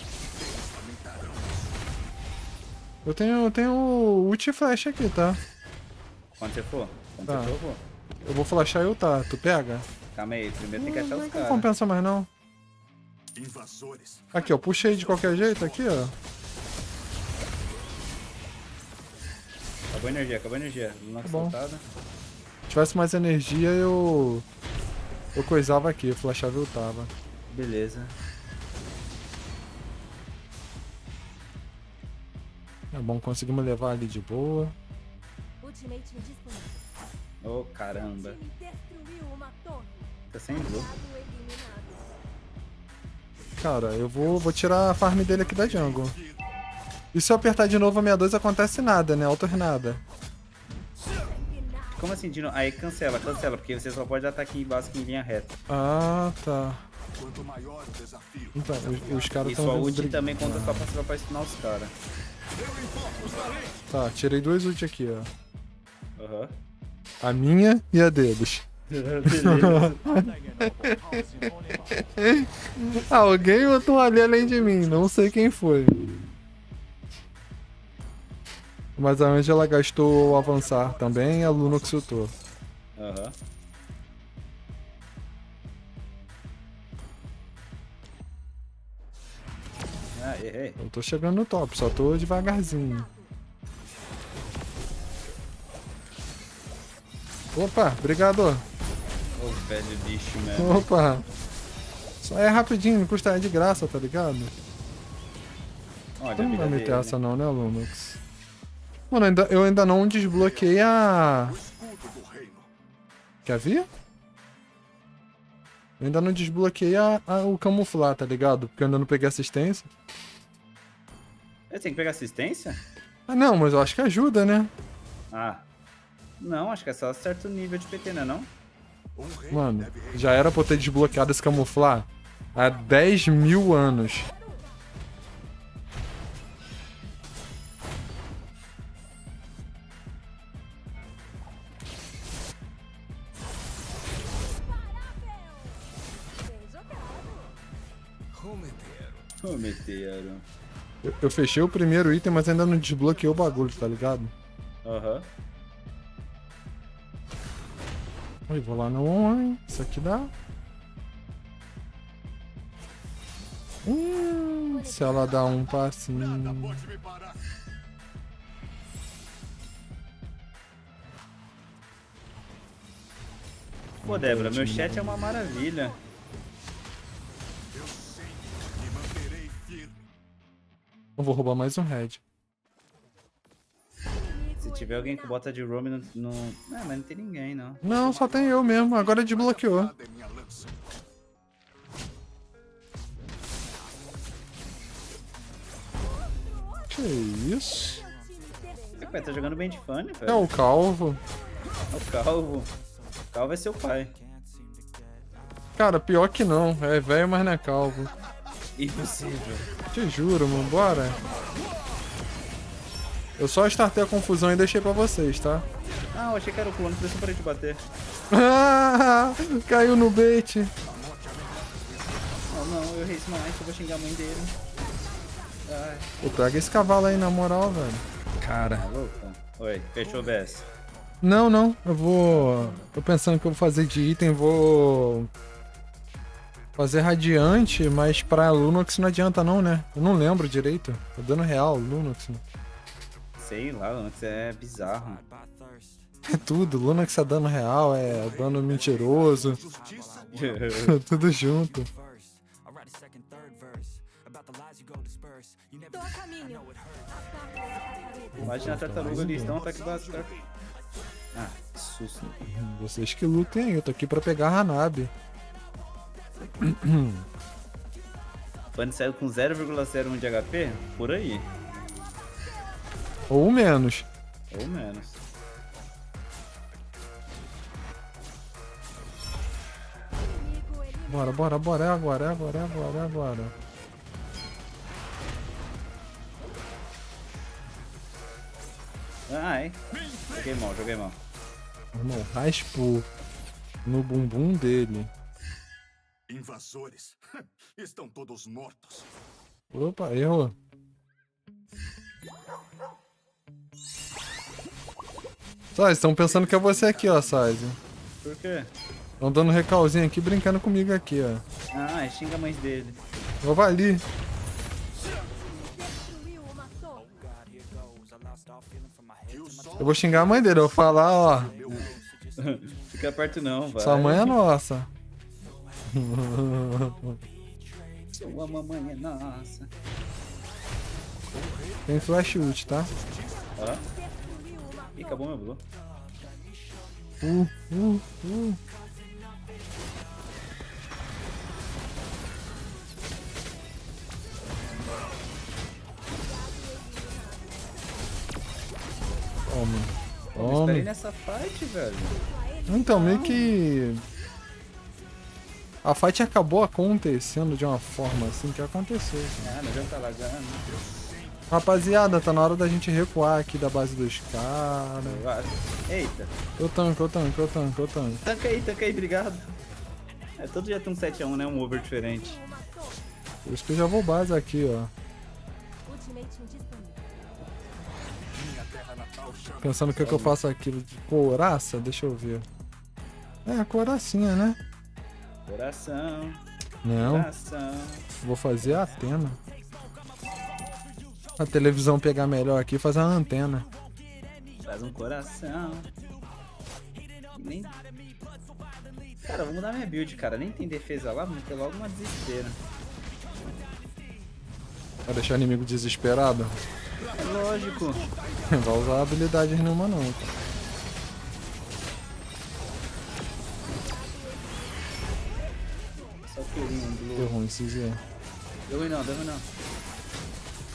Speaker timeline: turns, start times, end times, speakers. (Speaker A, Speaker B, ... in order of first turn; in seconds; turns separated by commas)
Speaker A: 0.7-1.4, Speaker B: 3.0-5.4, Speaker C: 6.4-7.8, Speaker B: 7.3-7.5, Speaker B: 8.3-9.9, Speaker C: 10.1-11.7, Speaker B: 10.8-12.3, Speaker A: 13.4-14.3, Speaker B: 14.3-16.1, Speaker C: 19.9-21.8, Speaker B: 21.2-21.6, Speaker B: 22.7-24.5, Speaker B: 25.4-27.1, Speaker C: 27.5-28.2, Speaker B: 32.9-34.8, Speaker D: 35.7-36.7, Speaker C: 37.4-38.4, Speaker D: 39.0-39.4, Speaker C: 40.3-40.9, Speaker D: 41.1-41.8, Speaker B: 43.6-46.2, Speaker B: 47.1-50.0, Speaker C: 51.9-55.6, Speaker B: 55.7-56.8, Speaker A: 57.2-58.5, Speaker B: 58.5-60.9, Speaker C: 59.3-61.9, Speaker A: 63.0-63.5, Speaker B: 63.9-65.3, Speaker C: 66.2-66.5, Speaker B: 67.2-68.7, Speaker C: 68.9-70.2, Speaker B: 69.2-76.2, Speaker B: 79.0-82.3, Speaker C: 83.0-83.4, Speaker C: 90.2-90.8, Speaker B: 90.8-93.1, Speaker B: 97.5-98.6, Speaker C: 99.3-100.9, Speaker B: 100.5-101.3, Speaker B: 102.2-104.5, Speaker C: 106.2-107.2, Speaker B: 106.4-108.2, Speaker B: 109.1-111.6, Speaker A: 111.7-112.7, Speaker B: 113.5-113.9, Speaker B: 116.0-119.9, Speaker C: 121.7-122.8, Speaker B: 123.3-124.7, Speaker C: 125.3-125.6, Speaker C: 126.4-128.5, Speaker A: 129.2-129.5, Speaker B: 129.5-134.3, Speaker D: 146.8-147.2, Speaker C: 149.4-150.4, Speaker B: 151.0-154.3, Speaker C: 154.8-155.3, Speaker B: 158.5-160.3, Speaker B: 163.8-166.9, Speaker B: 174.0-175.3, Speaker C: 174.0-176.0, Speaker A: 177.8-179.9, Speaker B: 181.2-182.2, Speaker C: 184.6-187.8, Speaker B: 187.8-189.9, Speaker A: 190.1-190.6, Speaker B: 196.9-198.1, Speaker C: 198.9-200.5, Speaker B: 200.3-201.2, Speaker C: 201.9-202.7, Speaker C: 203.3-204.2, Speaker B: 205.8-208.1, Speaker C: 208.8-209.7, Speaker B: 209.9-211.2, Speaker B: 213.4-215.7, Speaker C: 216.1-217.8, Speaker B: 218.3-220.7, Speaker C: 222.5-224.6, Speaker C: 225.7-226.1, Speaker B: 226.2-228.9, Speaker C: 228.7-230.7, Speaker B: 231.2-235.3, Speaker C: 232.3-232.8, Speaker B: 236.8-242.4, Speaker C: 243.4-245.2, Speaker B: 246.3-249.6, Speaker A: 249.8-250.1, Speaker C: 250.2-251.0, Speaker B: 250.7-251.9, Speaker D: 255.9-256.7, Speaker D: 257.6-258.3, Speaker B: 258.4-259.6, Speaker C: 258.4-260.4, Speaker C: 261.3-262.3, Speaker B: 262.3-265.1, Speaker B: 266.6-267.3, Speaker C: 268.8-271.6, Speaker B: 273.3-274.1, Speaker C: 274.5-275.2, Speaker B: 281.1-283.5, Speaker C: 289.3-291.2, Speaker B: 291.9-293.1, Speaker B: 293.9-295.1, Speaker A: 296.3-297.2, Speaker A: 297.8-299.0, Speaker B: 299.7-300.6, Speaker B: 305.7-307.8, Speaker C: 308.2-308.7, Speaker B: 309.2-311.4, Speaker C: 311.7-313.0, Speaker B: 313.4-314.0, Speaker D: 315.6-317.3, Speaker B: 319.8-321.6, Speaker C: 321.6-324.4, Speaker B: 323.8-324.9, Speaker B: 325.9-327.2, Speaker C: 328.1-329.7, Speaker B: 331.9-332.9, Speaker C: 333.6-333.9, Speaker C: 334.9-335.6, Speaker B: 337.2-338.6, Speaker D: 347.0-347.2, Speaker B: 349.5-350.9, Speaker C: 350.4-352.2, Speaker B: 352.7-354.1, Speaker C: 352.9-353.5, Speaker B: 355.8-359.6, Speaker C: 359.4-360.7, Speaker B: 361.5-365.2, Speaker C: 365.0-366.3, Speaker B: 366.6-368.2, Speaker C: 368.2-369.6, Speaker C: 370.4-372.4, Speaker B: 373.4-374.9, Speaker D: 376.1-376.9, Speaker A: 378.6-379.4, Speaker B: 379.6-382.5, Speaker C: 380.0-380.3, Speaker B: 383.5-384.6, Speaker C: 385.5-386.4, Speaker B: 386.8-387.3, Speaker C: 387.0-388.1, Speaker B: 388.2-389.4, Speaker B: 391.4-393.7, Speaker C: 394.6-395.9, Speaker C: 397.3-397.8, Speaker C: 399.2-402.6, Speaker B: 405.1-406.6, Speaker C: 407.1-408.1, Speaker B: 408.5-410.3, Speaker C: 416.3-417.4, Speaker B: 417.2-418.0, Speaker C: 418.7-419.5